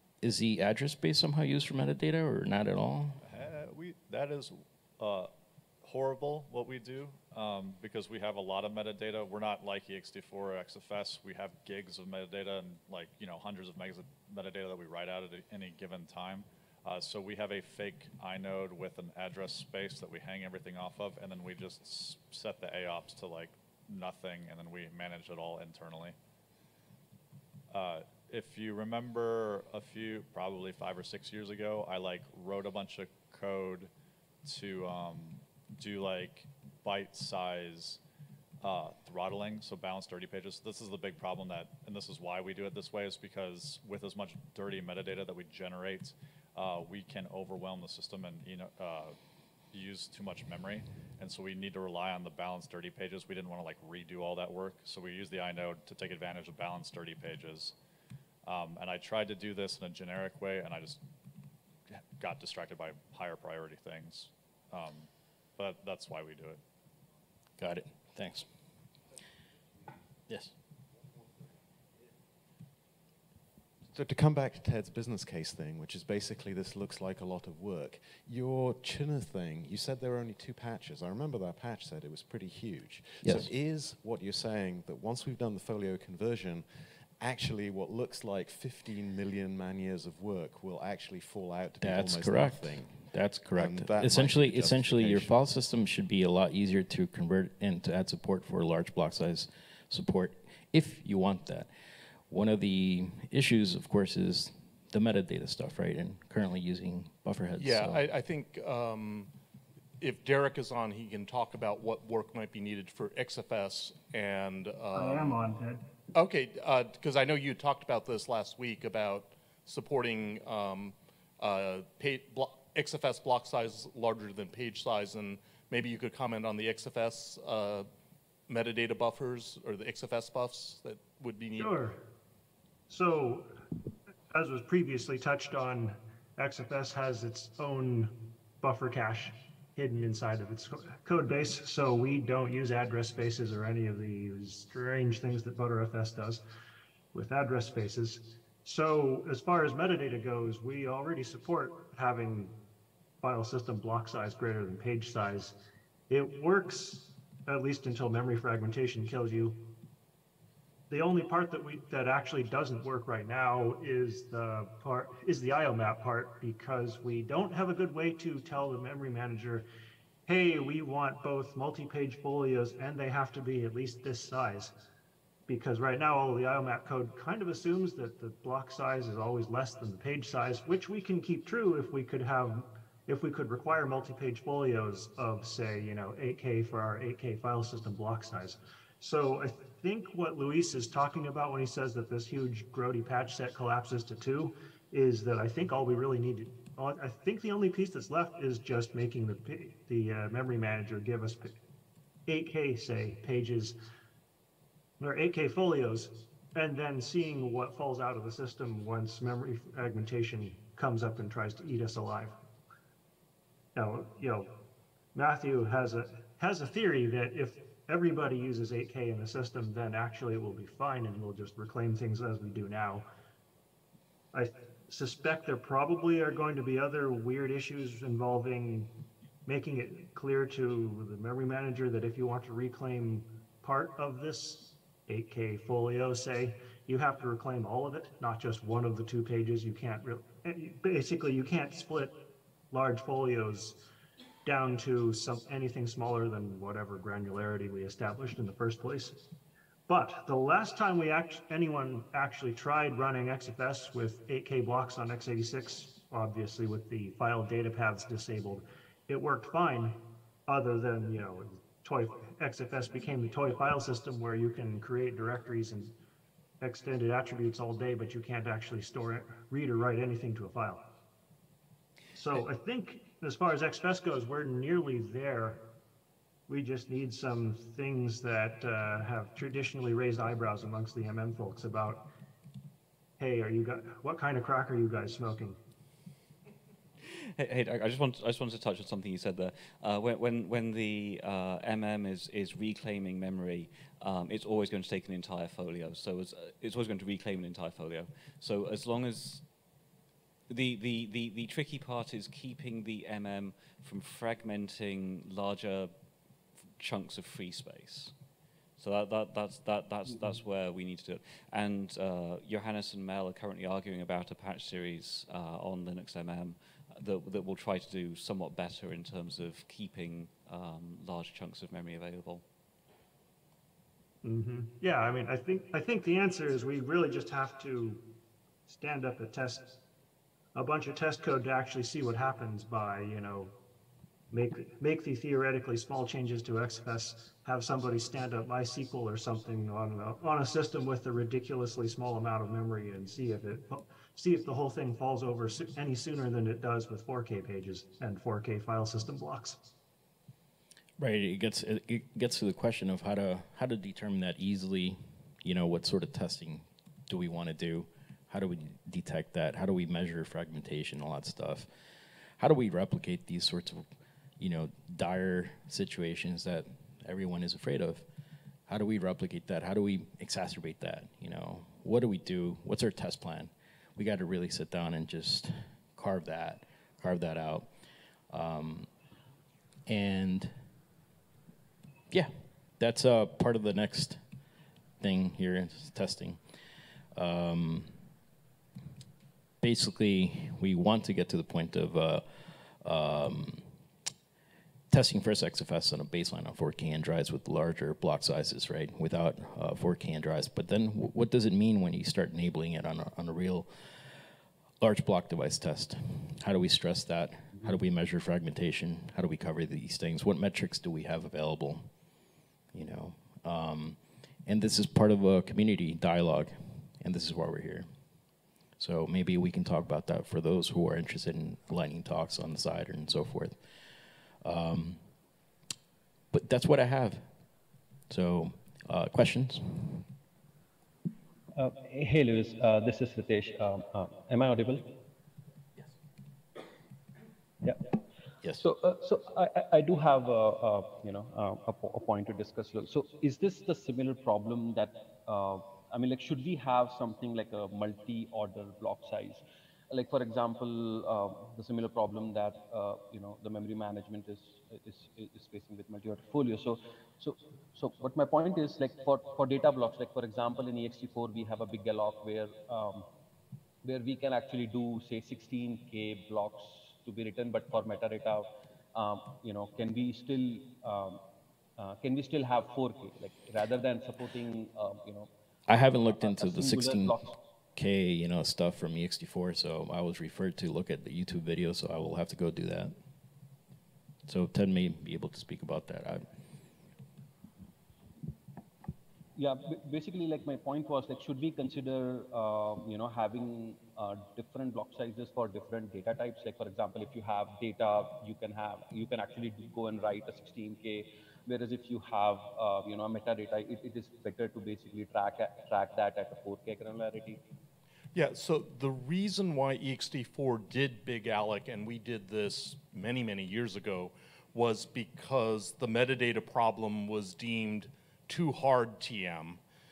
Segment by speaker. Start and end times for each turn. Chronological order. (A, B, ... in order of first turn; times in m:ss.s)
0:00.2-0:03.2 A
0:03.2-0:05.3 B
0:05.8-0:26.2 B
0:27.7-0:33.9 B
0:34.4-0:38.0 B
0:38.6-0:49.2 B
0:49.7-0:57.7 B
0:58.4-1:01.0 B
1:02.2-1:06.6 B
1:07.6-1:08.5 A
1:10.3-1:10.5 A
1:13.9-1:33.0 C
1:23.2-1:23.5 A
1:31.8-1:41.7 A
1:33.5-1:35.3 C
1:42.3-1:48.0 A
1:47.6-1:49.3 D
1:50.0-1:55.5 D
1:54.9-1:55.8 E
1:56.1-2:07.9 D
2:08.5-2:11.8 D
2:11.6-2:12.0 E
2:12.9-2:13.5 E
2:14.3-2:26.4 E
2:27.1-2:32.5 E
2:33.2-2:35.6 E
2:36.1-2:39.6 E
2:40.9-2:49.7 E
2:50.3-2:54.7 E
2:55.5-3:21.5 E
3:22.3-3:23.8 E
3:25.0-3:32.4 E
3:33.8-3:34.5 E
3:35.1-3:43.1 E
3:44.3-3:48.9 E
3:49.5-4:02.2 E
4:02.7-4:03.8 E
4:04.4-4:09.2 E
4:09.9-4:25.9 E
4:26.6-4:30.8 E
4:32.1-4:35.6 E
4:36.5-4:42.0 E
4:43.2-4:45.6 E
4:47.0-4:59.7 F
5:00.5-5:08.2 F
5:08.8-5:22.4 F
5:24.2-5:28.0 E
5:28.7-5:29.7 E
5:30.6-5:33.5 E
5:34.3-5:49.6 E
5:51.0-6:01.7 A
6:02.4-6:03.9 A
6:04.4-6:08.0 A
6:08.7-6:17.7 A
6:18.3-6:18.9 A
6:19.9-6:20.5 A
6:22.1-6:24.2 A
6:25.0-6:26.4 A
6:27.2-6:28.0 A
6:29.6-6:32.2 A
6:32.8-6:33.7 A
6:34.9-6:43.7 A
6:44.8-6:51.9 A
6:52.7-6:57.9 A
6:58.8-7:03.6 A
7:04.4-7:05.0 A
7:06.3-7:07.3 A
7:08.1-7:10.1 A
7:11.6-7:14.9 G
7:17.6-7:17.9 G
7:18.6-7:43.1 G
7:43.8-7:51.2 G
7:51.8-7:55.3 G
7:55.7-7:57.2 A
7:56.1-7:57.4 G
7:57.8-8:02.9 A
8:04.3-8:06.2 A
8:09.4-8:27.4 G
8:28.1-8:39.6 D